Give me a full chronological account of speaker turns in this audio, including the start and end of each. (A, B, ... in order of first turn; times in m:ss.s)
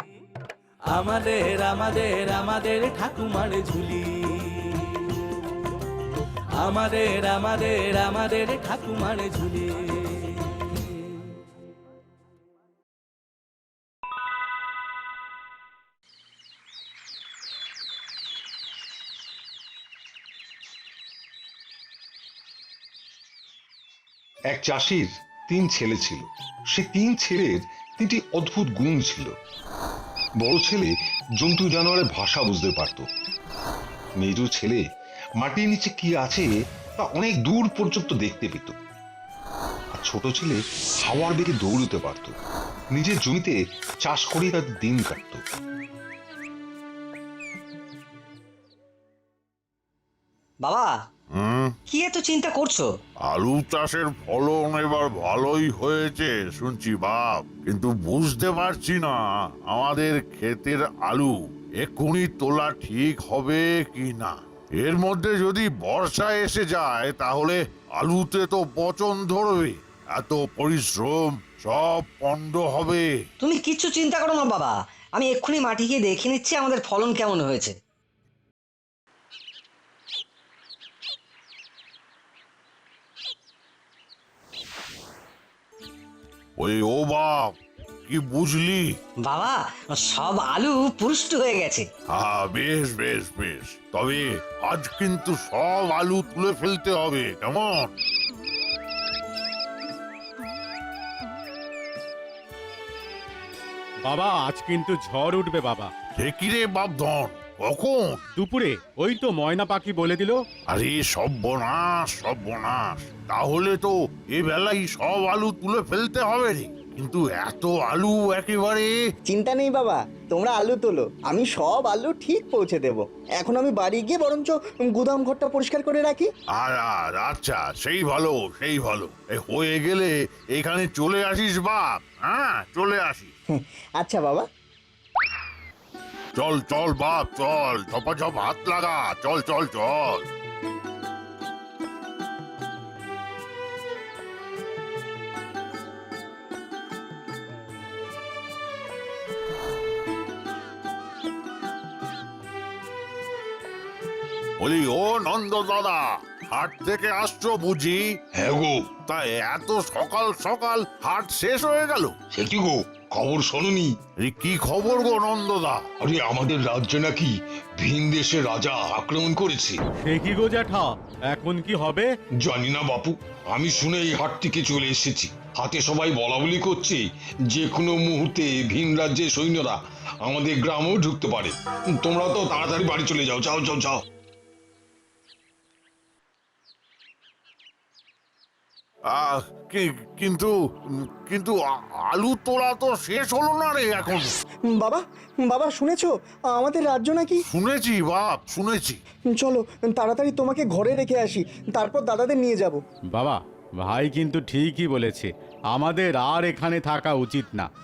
0:01.0-0:04.0 A
0:06.7-0:09.8 A
0:24.5-0:29.3 B
0:30.4-0:33.1 B
0:34.2-0:34.8 B
0:35.4-0:38.8 B
0:39.9-0:42.3 B
0:42.9-0:45.4 B
0:50.6-0:50.9 C
0:51.3-0:51.7 D
0:51.9-0:52.9 C
0:53.2-1:13.1 D
1:13.4-1:17.7 C
1:26.6-1:28.9 D
1:29.2-1:31.8 C
1:32.1-1:37.9 D
1:44.0-1:45.9 E
1:46.2-1:48.2 D
1:48.4-1:50.4 E
1:50.7-1:58.9 D
1:59.3-2:06.3 F
2:06.5-2:13.3 D
2:13.5-2:14.5 F
2:16.4-2:20.2 D
2:34.6-2:38.2 D
2:38.4-2:38.8 B
2:39.0-2:42.1 D
2:42.3-2:43.9 B
2:44.2-2:45.8 D
2:46.0-2:49.8 B
2:50.0-2:52.1 E
2:52.4-2:57.0 B
2:57.6-2:59.7 B
3:00.2-3:01.5 B
3:02.0-3:04.0 B
3:09.1-3:10.5 D
3:11.2-3:14.3 D
3:14.7-3:17.4 F
3:17.5-3:19.0 D
3:19.3-3:22.8 F
3:23.1-3:27.7 E